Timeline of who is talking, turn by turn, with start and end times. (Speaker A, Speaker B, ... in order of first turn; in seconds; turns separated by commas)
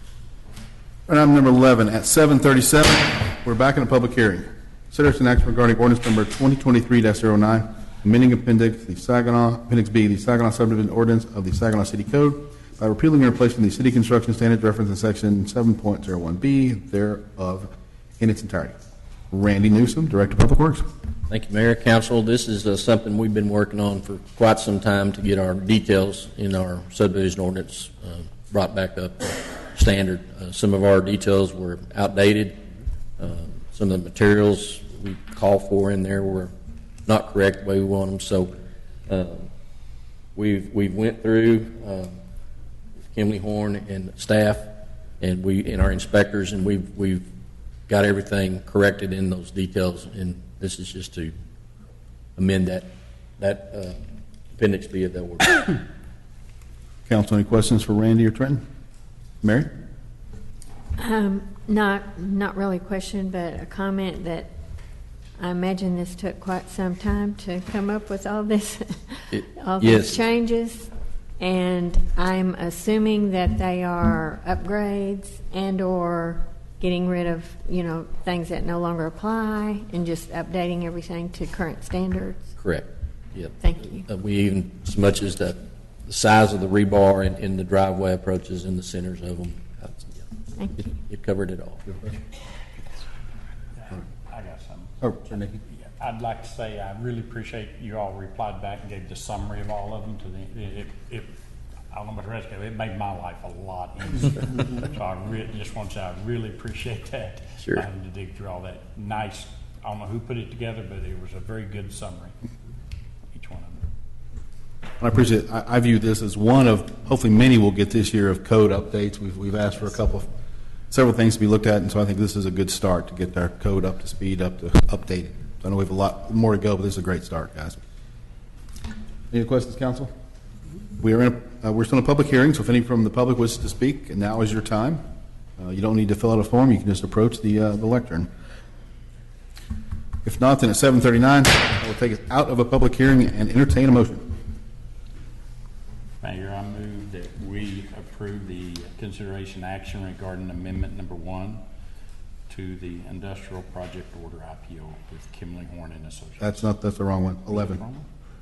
Speaker A: 1.1-18.8, Speaker A: 19.3-20.9, Speaker B: 21.3-32.6, Speaker B: 33.2-36.5, Speaker B: 37.1-38.5, Speaker B: 39.1-39.5, Speaker B: 40.4-42.2, Speaker B: 43.1-44.7, Speaker B: 45.2-47.2, Speaker B: 47.9-51.3, Speaker B: 52.4-52.9, Speaker B: 53.4-54.0, Speaker B: 54.6-55.8, Speaker A: 57.1-58.6, Speaker A: 59.4-59.7, Speaker C: 61.0-64.5, Speaker C: 65.4-70.9, Speaker B: 69.3-70.2, Speaker C: 71.4-82.5, Speaker B: 82.6-90.2, Speaker C: 83.6-84.1, Speaker C: 90.6-90.9, Speaker B: 90.8-91.8, Speaker D: 93.8-101.3, Speaker A: 95.0-95.6, Speaker D: 101.9-112.3, Speaker D: 113.3-113.8, Speaker A: 115.0-120.3, Speaker A: 120.9-127.8, Speaker A: 129.3-130.1, Speaker A: 131.0-135.0, Speaker A: 135.6-138.3, Speaker A: 140.2-144.2, Speaker D: 146.2-151.6, Speaker D: 152.5-156.7, Speaker A: 156.4-157.8, Speaker D: 157.5-158.1